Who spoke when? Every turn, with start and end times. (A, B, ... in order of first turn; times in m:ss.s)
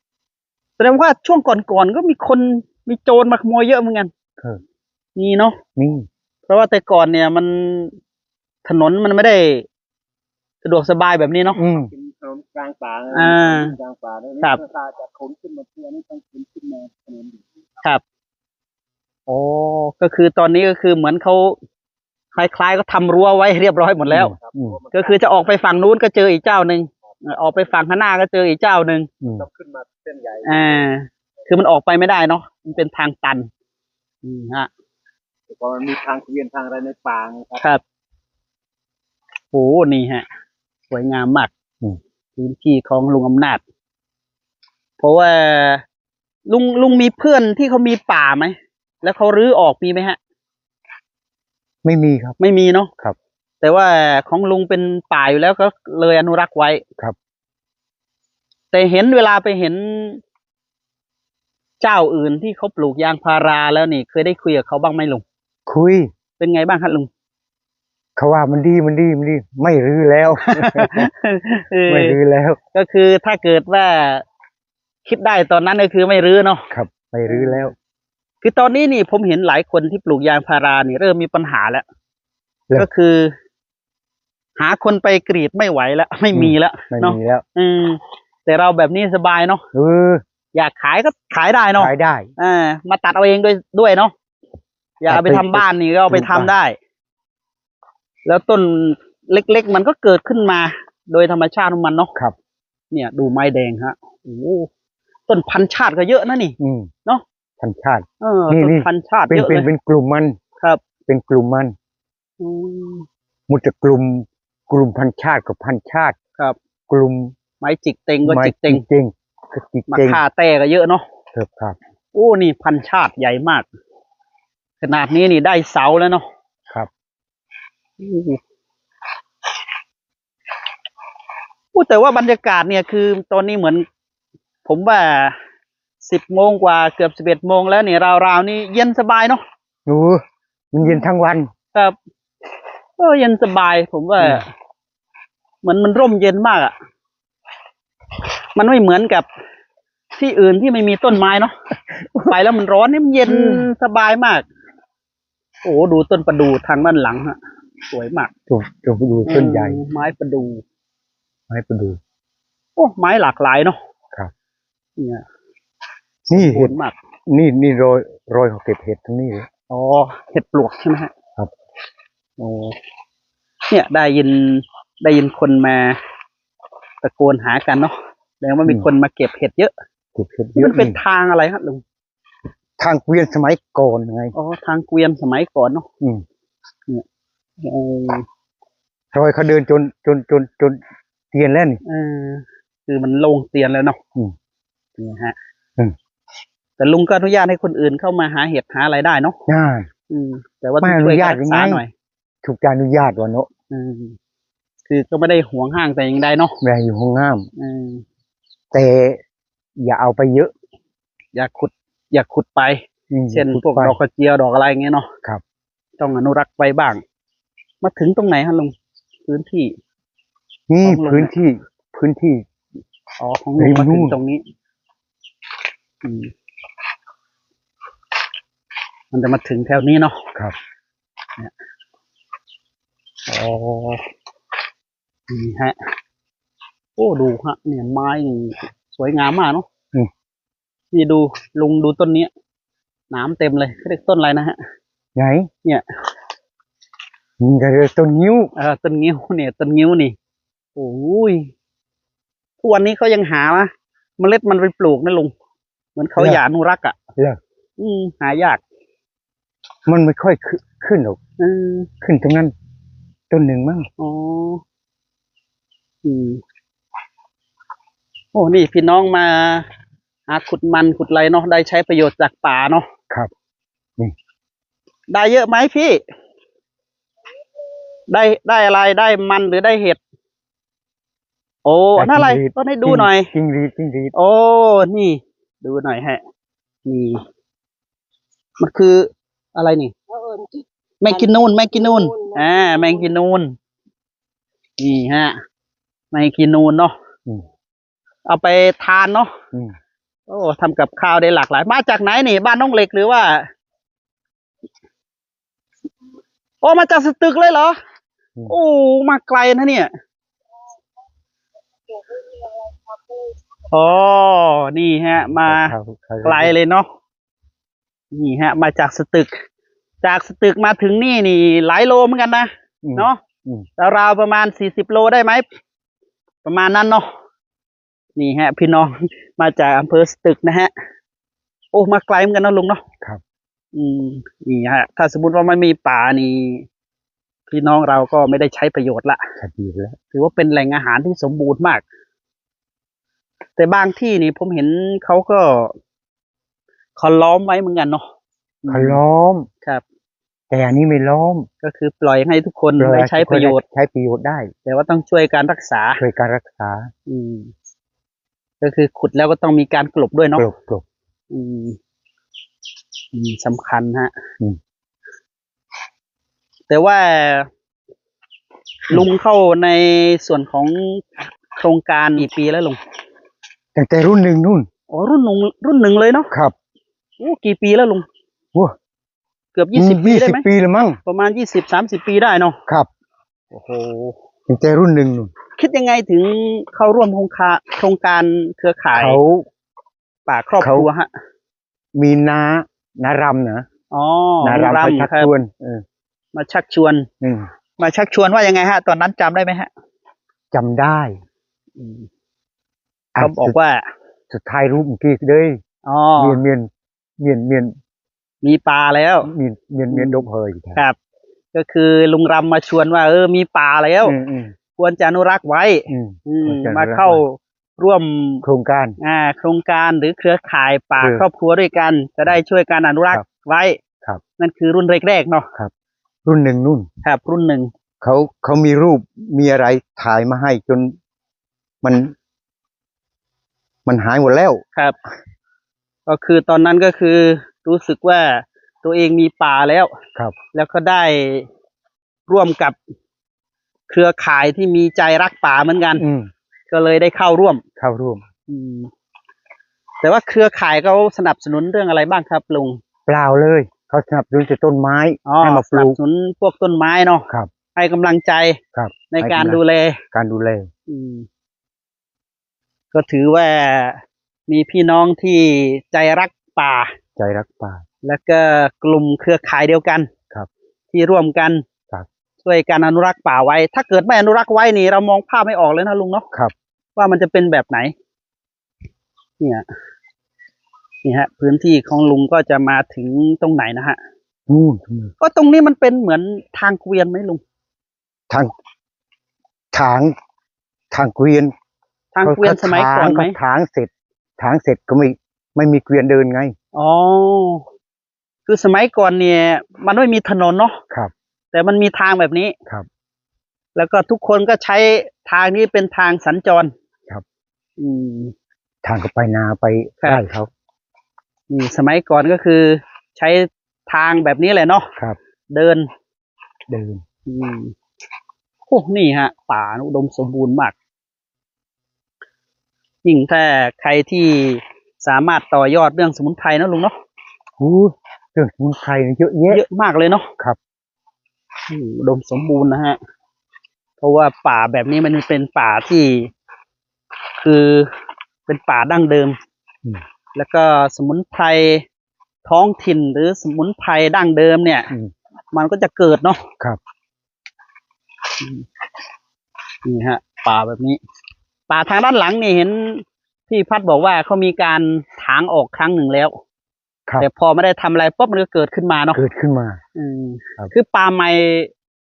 0:00.8-0:04.1 A
0:05.2-0:05.6 A
0:05.8-0:06.1 B
0:06.5-0:08.0 A
0:08.6-0:09.7 A
0:10.6-0:11.6 A
0:11.6-0:11.9 B
0:11.9-0:17.5 C
0:13.1-0:13.8 A
0:19.3-0:21.6 A
0:22.3-0:24.4 A
0:24.1-0:24.8 B
0:24.2-0:25.6 C
0:24.9-0:29.1 A
0:29.2-0:29.5 B
0:29.4-0:30.9 C
0:30.4-0:33.5 A
0:34.2-0:34.7 A
0:35.5-0:37.6 C
0:39.5-0:40.2 A
0:40.9-0:41.5 A
0:42.4-0:43.6 A
0:45.0-0:45.8 A
0:46.5-0:50.2 A
0:51.8-0:52.4 B
0:52.4-0:52.9 A
0:53.6-0:56.8 A
0:58.7-1:00.2 A
1:01.8-1:05.2 A
1:05.7-1:06.1 B
1:06.4-1:07.1 A
1:08.2-1:11.1 B
1:10.4-1:12.2 A
1:11.9-1:12.6 B
1:12.7-1:14.2 A
1:15.0-1:16.7 A
1:16.7-1:17.7 B
1:17.3-1:17.7 A
1:18.4-1:21.8 A
1:22.8-1:23.3 A
1:24.6-1:29.6 A
1:26.3-1:27.4 B
1:29.7-1:30.2 B
1:30.6-1:34.1 A
1:31.8-1:32.3 B
1:35.0-1:36.8 A
1:35.1-1:36.5 B
1:38.3-1:42.1 A
1:42.9-1:44.7 A
1:45.3-1:47.2 A
1:46.6-1:46.9 B
1:47.6-1:50.4 B
1:48.2-1:49.7 A
1:51.1-1:51.8 B
1:52.4-1:53.1 A
1:53.5-1:56.2 B
1:56.9-1:57.4 B
1:57.6-1:58.8 A
1:58.2-2:00.2 B
1:59.9-2:01.0 A
2:01.3-2:01.8 B
2:02.1-2:03.7 A
2:04.8-2:06.3 A
2:08.0-2:08.4 A
2:11.7-2:13.8 A
2:14.6-2:15.4 A
2:16.0-2:19.4 A
2:19.9-2:21.5 B
2:23.0-2:24.5 A
2:25.6-2:26.7 A
2:28.6-2:29.3 A
2:30.1-2:31.5 A
2:32.0-2:32.4 B
2:32.3-2:34.5 A
2:33.2-2:33.7 B
2:35.6-2:37.4 A
2:37.9-2:38.3 A
2:38.5-2:39.8 B
2:39.3-2:40.6 A
2:41.5-2:42.0 B
2:42.8-2:43.8 A
2:45.0-2:45.2 A
2:46.3-2:46.7 B
2:46.3-2:47.0 A
2:47.3-2:49.5 B
2:49.7-2:51.1 A
2:52.4-2:52.8 A
2:53.7-2:56.0 A
2:57.0-2:59.7 A
3:00.2-3:01.0 B
3:00.6-3:01.8 A
3:02.8-3:04.4 B
3:04.3-3:05.9 A
3:07.6-3:08.3 A
3:09.1-3:10.8 B
3:11.3-3:11.8 B
3:11.8-3:14.0 A
3:15.0-3:15.4 A
3:16.8-3:19.4 A
3:19.5-3:19.9 B
3:20.1-3:21.9 A
3:20.8-3:21.8 B
3:22.4-3:23.5 B
3:23.7-3:24.2 A
3:24.9-3:26.6 A
3:26.6-3:27.5 B
3:27.6-3:28.0 A
3:28.7-3:29.2 B
3:29.8-3:30.5 B
3:31.4-3:35.1 A
3:33.1-3:34.0 B
3:36.0-3:37.0 A
3:37.8-3:38.7 A
3:39.3-3:39.8 A
3:40.7-3:42.5 B
3:40.8-3:41.3 A
3:43.2-3:44.4 A
3:43.6-3:44.2 B
3:46.0-3:46.3 A
3:49.1-3:50.2 A
3:53.3-3:54.0 A
3:55.3-3:55.8 A
3:57.0-3:59.7 A
4:00.9-4:02.3 A
4:03.1-4:04.6 A
4:05.2-4:05.5 B
4:07.4-4:08.5 B
4:08.6-4:10.2 A
4:10.8-4:11.5 A
4:12.6-4:15.3 A
4:16.0-4:17.0 A
4:16.2-4:16.4 B
4:17.8-4:18.6 A
4:19.9-4:21.2 B
4:21.4-4:21.9 A
4:22.0-4:22.5 B
4:23.3-4:23.9 B
4:24.0-4:24.6 A
4:26.0-4:26.4 A
4:28.3-4:29.7 A
4:30.3-4:32.9 A
4:35.1-4:36.0 A
4:38.1-4:40.0 A
4:41.6-4:43.3 A
4:42.0-4:44.1 B
4:44.1-4:46.2 A
4:46.9-4:47.2 A
4:48.6-4:50.0 A
4:51.0-4:53.6 A
4:54.8-4:55.4 A
4:56.1-4:57.0 A
4:58.3-4:59.3 A
5:00.3-5:03.5 A
5:06.6-5:07.8 A
5:08.5-5:09.9 A
5:13.7-5:16.9 A
5:15.2-5:16.5 B
5:18.1-5:19.3 A
5:20.0-5:23.2 A
5:22.8-5:23.7 B
5:23.8-5:25.4 A
5:26.4-5:27.1 A
5:28.2-5:30.7 A
5:31.7-5:32.8 A
5:33.7-5:36.7 A
5:37.5-5:39.2 A
5:39.4-5:40.0 B
5:40.1-5:41.8 A
5:43.6-5:45.7 A
5:47.0-5:48.0 A
5:48.6-5:49.0 A
5:48.7-5:49.5 B
5:50.5-5:51.5 B
5:51.6-5:53.6 A
5:52.8-5:54.5 B
5:54.7-5:56.0 A
5:56.0-5:56.9 B
5:57.1-5:57.5 A
5:58.6-6:00.5 A
6:00.4-6:00.8 B
6:01.3-6:01.8 A
6:03.1-6:04.1 A
6:06.7-6:07.5 A
6:08.9-6:12.8 A
6:13.8-6:14.7 B
6:14.9-6:16.3 A
6:16.3-6:16.6 B
6:17.2-6:18.1 A
6:19.6-6:20.4 A
6:19.7-6:21.0 B
6:21.1-6:22.6 A
6:23.5-6:24.2 A
6:24.5-6:25.3 B
6:25.6-6:29.2 A
6:28.9-6:29.5 B
6:30.3-6:31.1 A
6:30.6-6:30.9 B
6:32.0-6:33.7 B
6:33.9-6:35.3 A
6:34.4-6:35.8 B
6:36.3-6:37.1 A
6:37.2-6:37.5 B
6:37.8-6:39.7 A
6:40.5-6:41.2 B
6:41.8-6:42.1 A
6:43.2-6:43.6 B
6:43.2-6:43.8 A
6:44.3-6:45.6 B
6:45.8-6:46.4 A
6:46.2-6:47.8 B
6:48.4-6:49.3 A
6:49.2-6:50.8 B
6:49.9-6:51.0 A
6:51.5-6:54.2 A
6:54.0-6:54.5 B
6:54.8-6:58.4 A
6:55.9-6:57.2 B
6:58.4-6:59.0 B
6:59.0-7:03.8 A
7:01.0-7:01.2 B
7:04.4-7:05.5 A
7:06.3-7:06.9 B
7:07.0-7:07.7 A
7:08.0-7:11.0 B
7:11.8-7:12.2 B
7:13.9-7:14.6 B
7:16.1-7:19.9 A
7:20.5-7:21.5 A
7:22.3-7:22.8 A
7:23.9-7:26.0 A
7:26.0-7:26.3 B
7:26.7-7:27.6 A
7:27.8-7:28.2 B
7:28.5-7:28.9 A
7:30.0-7:32.8 A
7:33.1-7:36.0 B
7:35.3-7:38.6 A
7:38.7-7:39.6 B
7:39.1-7:40.0 A
7:40.1-7:40.7 B
7:40.9-7:41.3 A
7:42.9-7:46.9 A
7:47.2-7:47.8 B
7:48.0-7:50.1 A
7:50.9-7:51.6 A
7:52.4-7:56.2 A
7:57.0-7:57.9 A
7:59.4-7:59.6 A
8:01.0-8:04.0 A
8:04.5-8:05.1 B
8:05.2-8:07.4 A
8:09.7-8:10.1 B
8:10.9-8:11.5 B
8:12.1-8:13.4 A
8:12.2-8:16.6 B
8:16.8-8:17.6 A
8:18.5-8:20.8 A
8:21.5-8:22.6 A
8:23.8-8:26.7 A
8:27.8-8:28.3 A
8:28.8-8:30.5 B
8:31.5-8:34.9 A
8:35.5-8:35.9 A
8:36.7-8:37.0 B
8:37.3-8:37.7 A
8:38.7-8:40.8 A
8:43.0-8:47.0 A
8:47.6-8:49.7 B
8:49.5-8:50.3 A
8:51.7-8:53.0 A
8:54.0-8:56.3 A
8:57.4-8:57.9 A
8:58.5-8:59.4 A
9:00.4-9:01.8 A
9:02.4-9:04.9 A
9:05.5-9:06.5 A
9:09.8-9:11.0 A
9:11.7-9:16.4 A
9:17.2-9:19.2 A
9:19.1-9:19.8 B
9:20.0-9:21.7 A